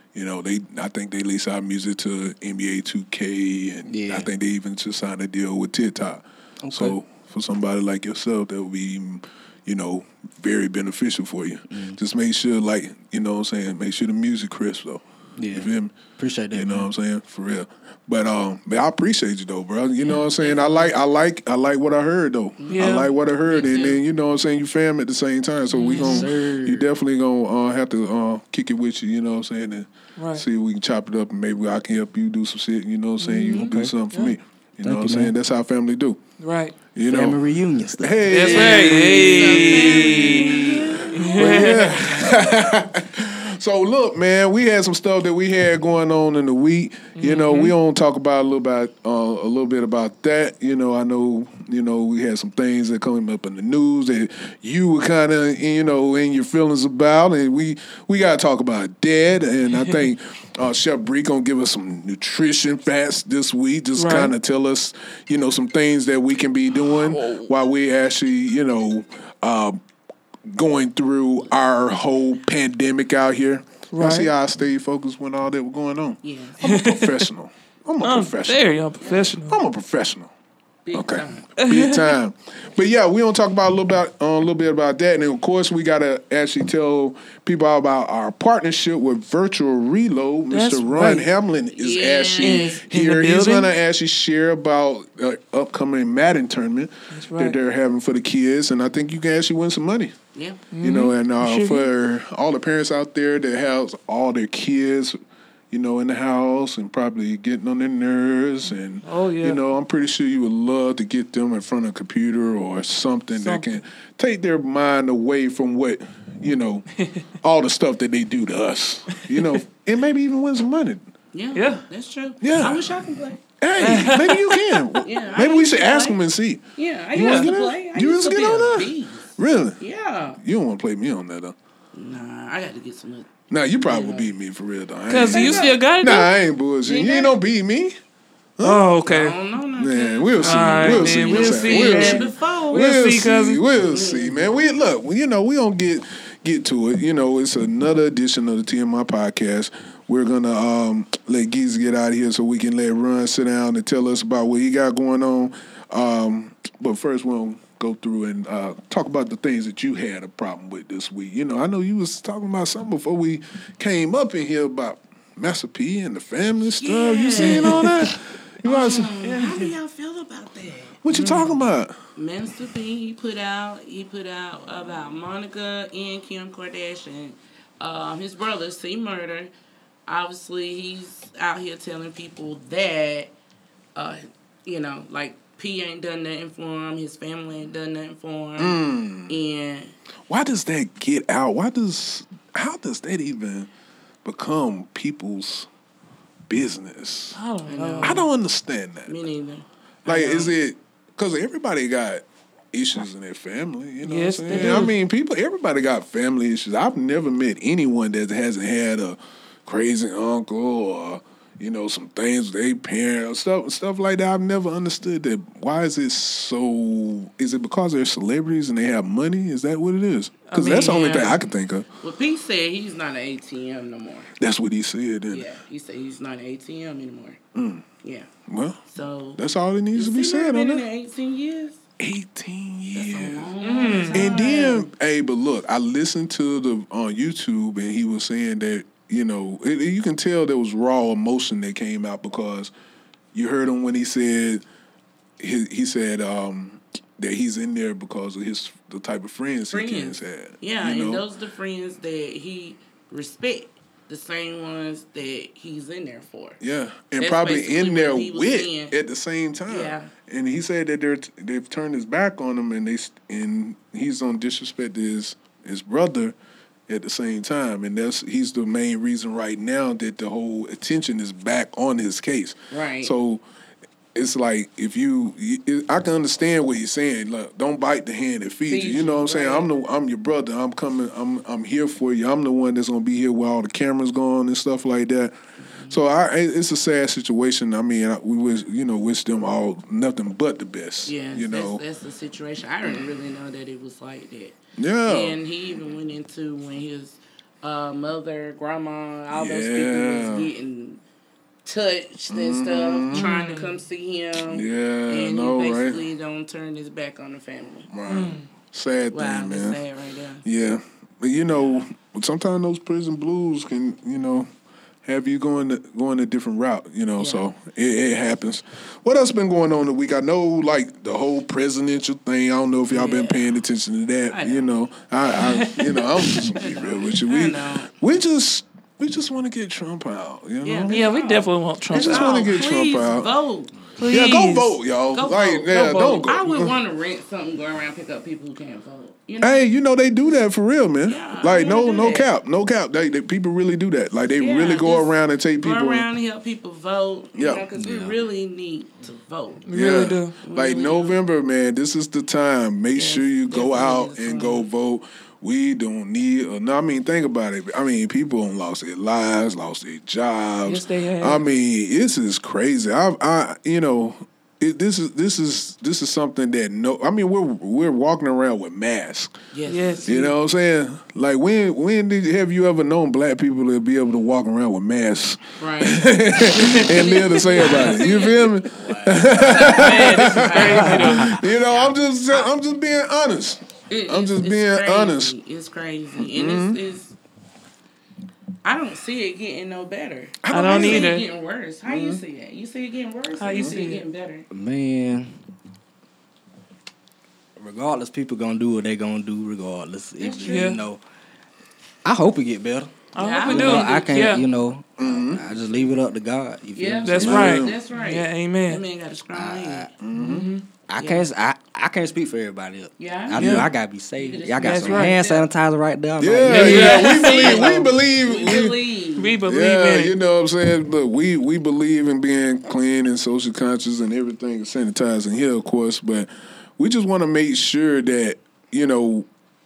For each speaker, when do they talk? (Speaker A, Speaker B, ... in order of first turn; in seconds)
Speaker A: 0.1-16.0, 16.5-36.2, 36.8-37.4, 37.9-69.8, 70.5-80.3, 80.9-100.1, 100.8-105.2, 105.7-116.9, 117.4-121.0, 122.4-122.9, 123.6-129.8, 130.4-131.6, 133.5-137.9, 138.6-138.9, 139.7-169.1, 171.0-172.0, 188.6-189.3, 190.3-193.7, 194.2-195.7, 196.5-197.4, 198.0-199.2, 200.1-221.9, 224.4-225.5, 227.5-227.8, 228.5-228.8, 229.4-230.8, 232.0-233.5, 234.1-242.7, 243.3-244.6, 245.4-251.2, 256.6-266.4, 266.9-273.4, 274.1-285.3, 285.9-291.8, 294.8-295.4, 299.3-300.5, 302.3-303.3, 304.5-306.0, 307.9-309.8, 310.4-314.5, 315.0-331.1, 331.9-333.3, 334.1-336.8, 339.4-346.1, 347.3-347.6, 349.7-369.3, 370.0-385.3, 386.2-386.8, 390.4-391.1, 391.9-392.2, 405.0-405.4, 407.2-407.8, 410.0-410.5, 416.2-418.8, 419.4-429.3
Speaker B: 3.9-4.3, 6.6-7.0, 11.7-12.0, 15.4-16.9, 25.9-26.9, 33.5-33.9, 34.8-35.3, 37.1-39.4, 347.8-348.2, 394.5-395.3, 397.6-401.0, 402.0-407.7, 409.3-410.0, 410.9-417.0
Speaker C: 22.6-24.0, 38.3-42.0, 76.2-76.6, 79.0-79.2, 80.8-81.5, 91.7-92.8, 100.3-100.6, 121.3-123.4, 125.0-126.2, 126.7-130.4, 131.9-134.3, 135.2-135.8, 136.8-137.4, 139.0-142.9, 143.9-144.5, 166.8-167.9, 168.6-171.0, 172.1-179.5, 180.1-183.3, 183.9-189.9, 197.7-198.2, 199.1-200.5, 220.6-221.4, 222.0-224.3, 225.3-227.4, 228.0-228.3, 228.9-229.4, 229.9-231.8, 232.9-234.9, 249.7-256.6, 257.2-258.9, 259.7-260.1, 272.7-273.1, 278.7-279.7, 285.6-286.0, 291.1-301.0, 301.6-307.9, 309.1-310.4, 317.2-317.4, 322.9-323.5, 324.3-324.7, 326.2-327.9, 330.6-333.7, 335.1-339.7, 341.1-342.3, 344.3-351.2, 352.9-354.6, 369.5-370.2, 375.6-382.4, 383.9-387.1, 388.6-394.5, 400.2-400.8, 403.1-404.3, 406.8-409.9, 411.0-411.3, 413.0-415.5, 416.5-419.4
Speaker D: 22.7-23.1, 25.8-26.2, 30.2-30.4, 33.2-34.4, 36.4-36.8, 38.3-42.3, 47.1-47.7, 64.0-64.3, 67.1-67.4, 73.9-74.3, 76.6-77.2, 78.0-79.6, 81.6-82.1, 90.5-91.3, 92.4-93.7, 97.1-97.5, 100.7-101.9, 109.0-109.6, 113.3-113.8, 121.5-121.8, 123.8-124.9, 135.1-136.3, 138.6-139.4, 140.4-143.6, 167.4-168.0, 169.2-169.7, 171.1-171.6, 197.3-198.2, 204.0-204.9, 220.5-221.3, 233.6-234.3, 303.1-303.8, 308.1-308.5, 325.6-326.5, 330.9-332.6, 334.0-334.8, 349.7-350.4, 360.6-361.4, 369.7-370.3, 377.7-378.2, 379.6-381.4, 390.5-391.2, 393.4-394.1, 400.5-400.8, 403.1-404.4, 407.1-408.8, 410.1-410.6, 413.4-413.7, 414.6-415.2, 416.5-417.8, 419.2-420.1